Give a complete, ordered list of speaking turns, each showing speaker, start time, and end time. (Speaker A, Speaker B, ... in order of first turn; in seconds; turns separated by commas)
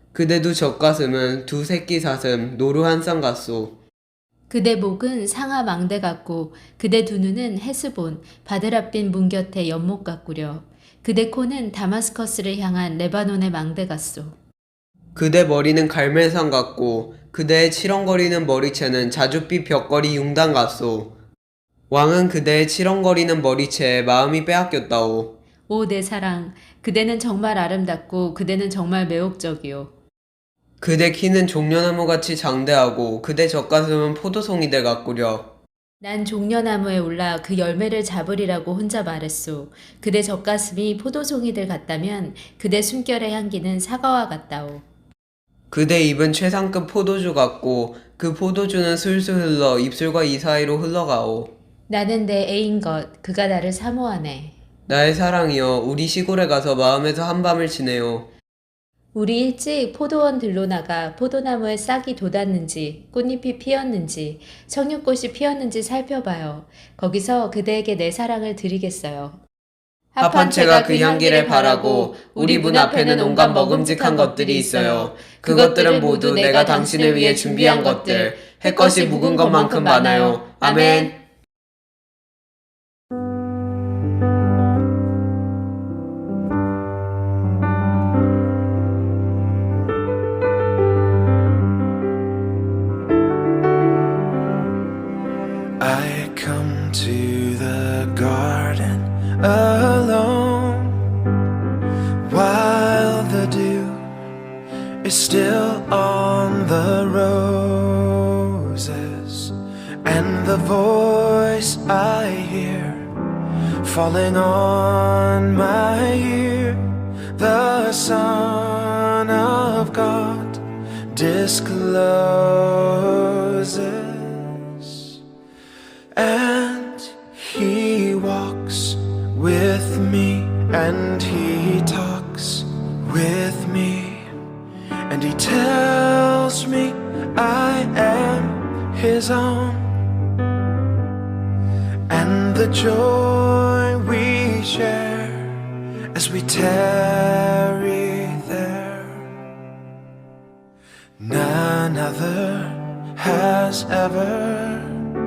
Speaker A: 0.1-3.8, Speaker B: 4.5-14.3, Speaker A: 15.2-21.1, Speaker A: 21.9-25.3, Speaker B: 25.7-29.9, Speaker A: 30.8-35.5, Speaker B: 36.0-44.8, Speaker A: 45.7-51.5, Speaker B: 51.9-54.5, Speaker A: 54.9-58.3, Speaker B: 59.1-69.4, Speaker B: 70.1-81.2, Speaker A: 70.2-81.1, Speaker C: 95.8-101.1, Speaker C: 102.2-104.1, Speaker C: 105.0-113.1, Speaker C: 113.8-125.2, Speaker C: 126.1-134.3, Speaker C: 135.1-139.9, Speaker C: 142.1-149.3, Speaker C: 151.2-155.1